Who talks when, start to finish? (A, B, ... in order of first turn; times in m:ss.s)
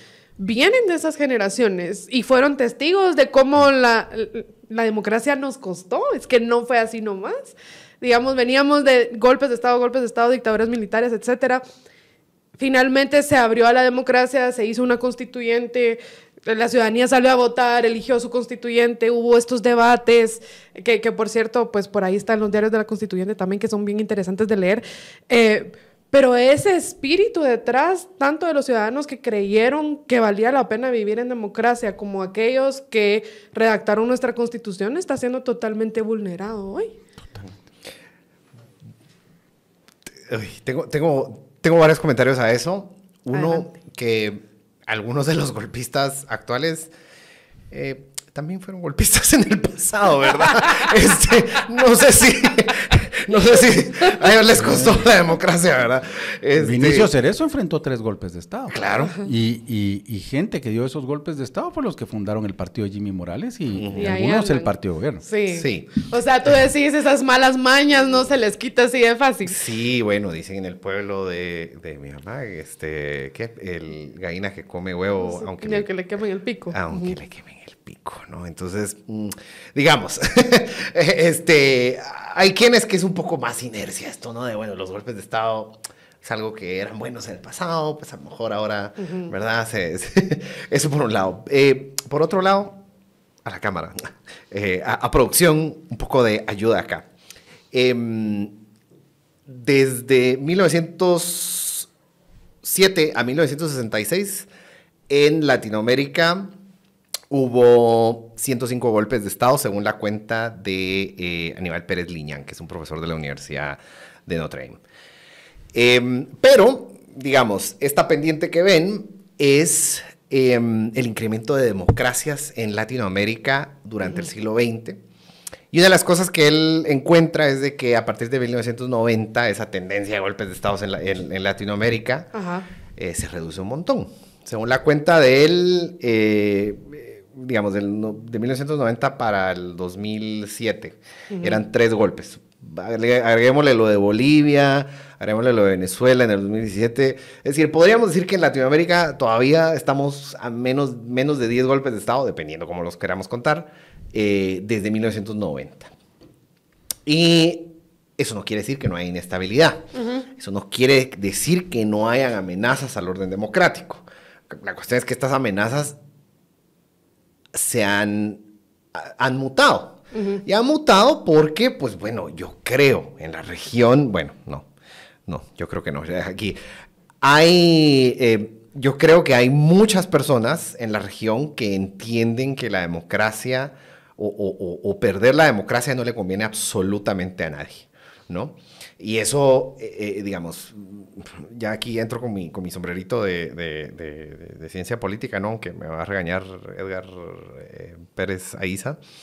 0:00.4-0:11.6 A
0:12.6-0:36.9 A
0:40.3-0:46.9 B
0:43.3-0:43.7 A
0:47.7-0:57.1 B
0:56.6-1:05.2 C
0:58.7-0:59.2 B
1:03.7-1:04.1 B
1:04.0-1:04.7 A
1:05.2-1:09.6 A
1:05.5-1:06.0 B
1:09.4-1:15.9 B
1:15.2-1:17.2 A
1:16.7-1:32.8 B
1:29.0-1:29.3 A
1:33.4-1:37.0 B
1:37.7-1:38.5 B
1:39.5-1:41.9 B
1:42.6-1:44.5 B
1:45.1-1:46.5 B
1:47.3-1:54.8 B
1:55.7-2:05.0 B
2:05.7-2:12.3 B
2:12.3-2:12.7 A
2:13.0-2:35.9 B
2:21.3-2:21.6 A
2:37.0-2:39.8 B
2:39.9-2:40.2 A
2:40.4-2:46.0 B
2:47.5-2:48.4 B
2:48.9-2:54.7 B
2:50.1-2:50.4 A
2:55.3-2:56.6 B
2:57.2-3:19.0 B